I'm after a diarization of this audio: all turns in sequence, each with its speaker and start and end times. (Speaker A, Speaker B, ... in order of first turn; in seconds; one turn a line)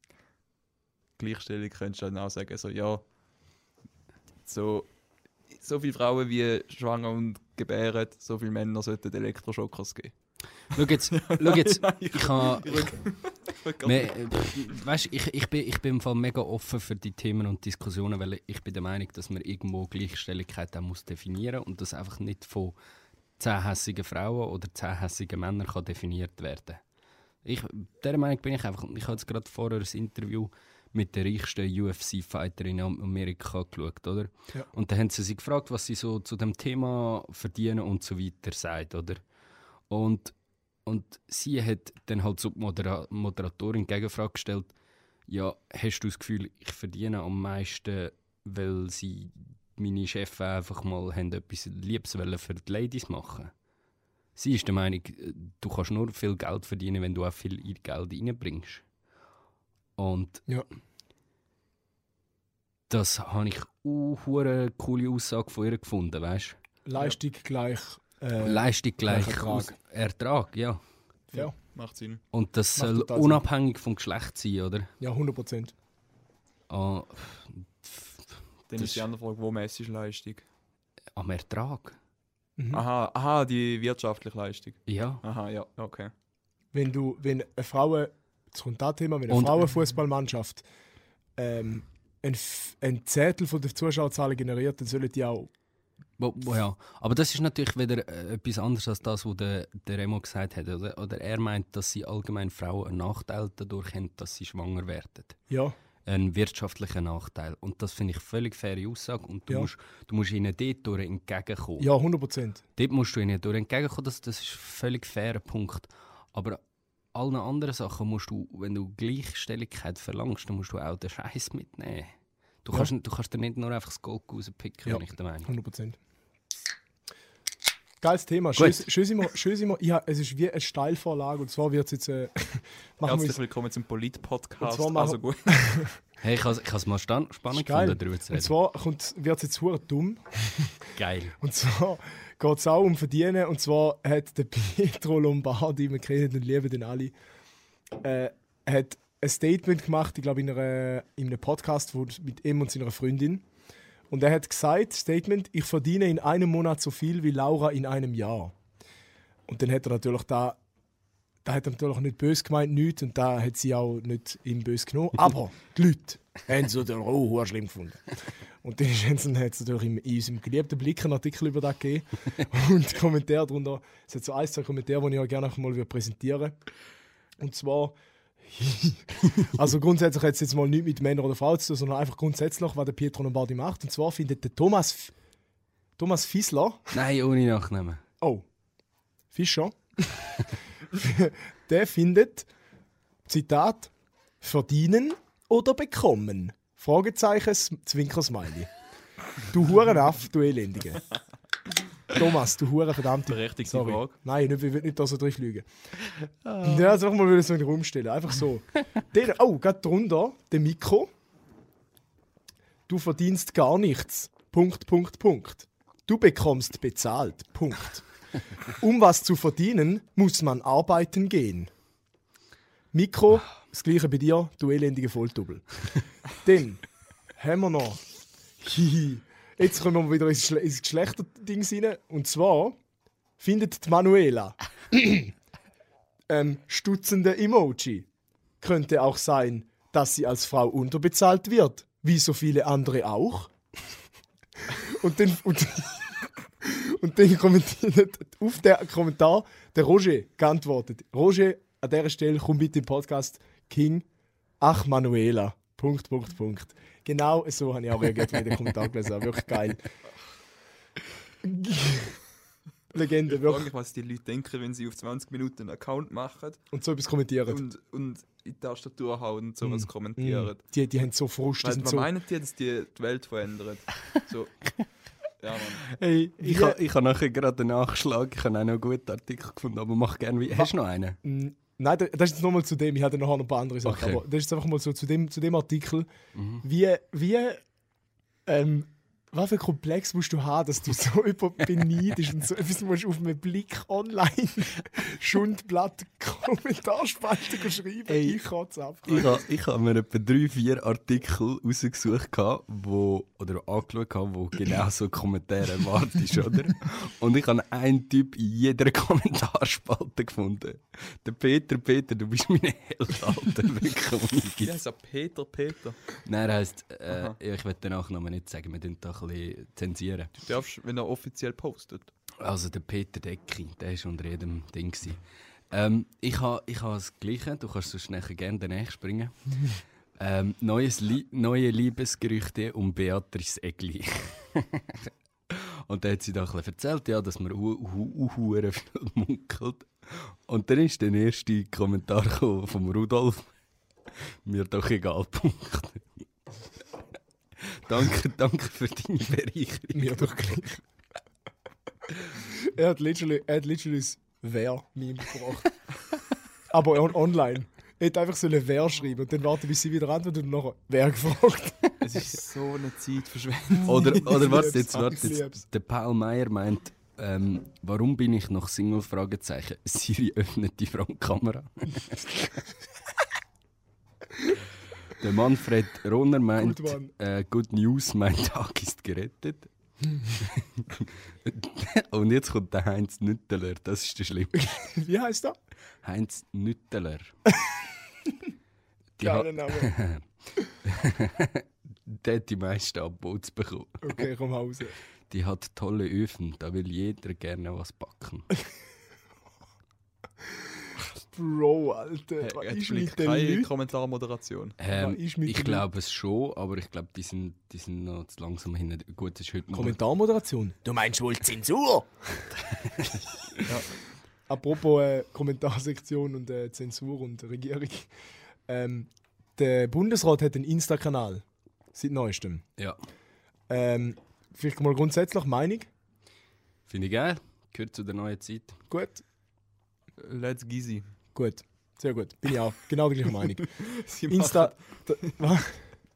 Speaker A: 1.2-3.0
Speaker A: 4.4-4.9
Speaker A: 5.5-10.1
Speaker B: 10.7-13.0
Speaker A: 11.1-14.7
Speaker B: 13.8-22.8
Speaker B: 23.4-26.8
Speaker B: 27.4-39.2
Speaker B: 39.9-44.7
Speaker B: 45.3-53.5
Speaker B: 54.4-58.8
Speaker B: 60.0-60.5
Speaker B: 62.9-66.6
Speaker C: 66.8-69.7
Speaker B: 68.4-70.8
Speaker A: 71.3-72.2
Speaker B: 72.3-74.9
Speaker C: 72.8-73.4
Speaker C: 75.0-75.7
Speaker B: 76.7-79.0
Speaker A: 78.7-80.4
Speaker B: 81.1-82.0
Speaker C: 82.6-82.8
Speaker A: 82.7-86.1
Speaker B: 84.9-85.2
Speaker C: 86.7-90.6
Speaker B: 89.3-89.6
Speaker C: 91.4-95.5
Speaker B: 96.2-105.4
Speaker C: 105.5-105.7
Speaker B: 106.0-111.9
Speaker C: 111.8-112.6
Speaker B: 112.8-116.6
Speaker B: 117.1-125.5
Speaker C: 124.8-126.0
Speaker C: 128.0-133.4
Speaker B: 128.6-128.9
Speaker A: 133.0-135.8
Speaker C: 134.6-135.9
Speaker B: 136.2-138.5
Speaker C: 137.5-140.9
Speaker B: 140.9-141.3
Speaker C: 141.4-147.1
Speaker C: 148.0-153.4
Speaker C: 154.1-158.5
Speaker C: 159.5-160.6
Speaker C: 161.4-176.6
Speaker C: 177.4-185.1
Speaker C: 186.0-186.9
Speaker B: 186.9-188.0
Speaker C: 189.3-192.5
Speaker C: 193.3-198.7
Speaker C: 199.4-201.0
Speaker C: 202.1-205.7
Speaker A: 203.3-204.1
Speaker B: 206.4-206.9
Speaker C: 206.6-211.1
Speaker C: 212.9-218.0
Speaker C: 218.7-221.7
Speaker C: 222.9-225.7
Speaker C: 226.3-226.8
Speaker C: 227.3-228.0
Speaker C: 228.6-232.8
Speaker C: 233.4-235.3
Speaker C: 236.3-238.1
Speaker C: 238.6-243.5
Speaker C: 244.7-246.1
Speaker C: 246.6-254.1
Speaker C: 254.6-259.9
Speaker C: 261.4-262.2
Speaker C: 262.9-263.7
Speaker A: 263.2-266.6
Speaker C: 266.7-267.6
Speaker A: 267.5-270.6
Speaker C: 269.6-272.1
Speaker A: 271.6-274.7
Speaker A: 275.3-275.9
Speaker B: 275.9-281.2
Speaker C: 276.4-276.8
Speaker C: 281.2-286.1
Speaker B: 283.8-284.2
Speaker B: 286.3-286.6
Speaker C: 286.6-287.6
Speaker C: 288.4-299.4
Speaker B: 298.1-298.4
Speaker B: 299.0-314.8
Speaker A: 314.6-316.1
Speaker B: 316.2-320.3
Speaker A: 317.1-317.4
Speaker A: 320.4-322.1
Speaker B: 322.4-329.6
Speaker B: 330.2-343.5
Speaker B: 344.2-346.1
Speaker B: 347.6-350.5
Speaker C: 349.9-350.8
Speaker C: 352.4-355.7
Speaker C: 356.7-361.9
Speaker A: 362.0-365.0
Speaker B: 363.8-372.6
Speaker C: 363.9-365.6
Speaker B: 375.1-379.7
Speaker C: 376.6-377.1
Speaker B: 380.3-384.6
Speaker C: 384.5-385.6
Speaker B: 386.0-387.3
Speaker B: 389.2-390.2
Speaker C: 389.2-389.9
Speaker B: 390.8-394.2
Speaker C: 394.0-395.0
Speaker B: 395.3-398.5
Speaker C: 401.3-403.7
Speaker A: 402.4-404.8
Speaker B: 404.8-410.0
Speaker C: 404.9-405.8
Speaker C: 409.7-412.1
Speaker B: 412.6-413.2
Speaker C: 414.5-418.1
Speaker C: 418.7-422.6
Speaker C: 423.7-425.9
Speaker B: 426.9-428.8
Speaker C: 428.9-429.2
Speaker A: 430.2-431.0
Speaker C: 431.3-435.9
Speaker A: 433.6-435.3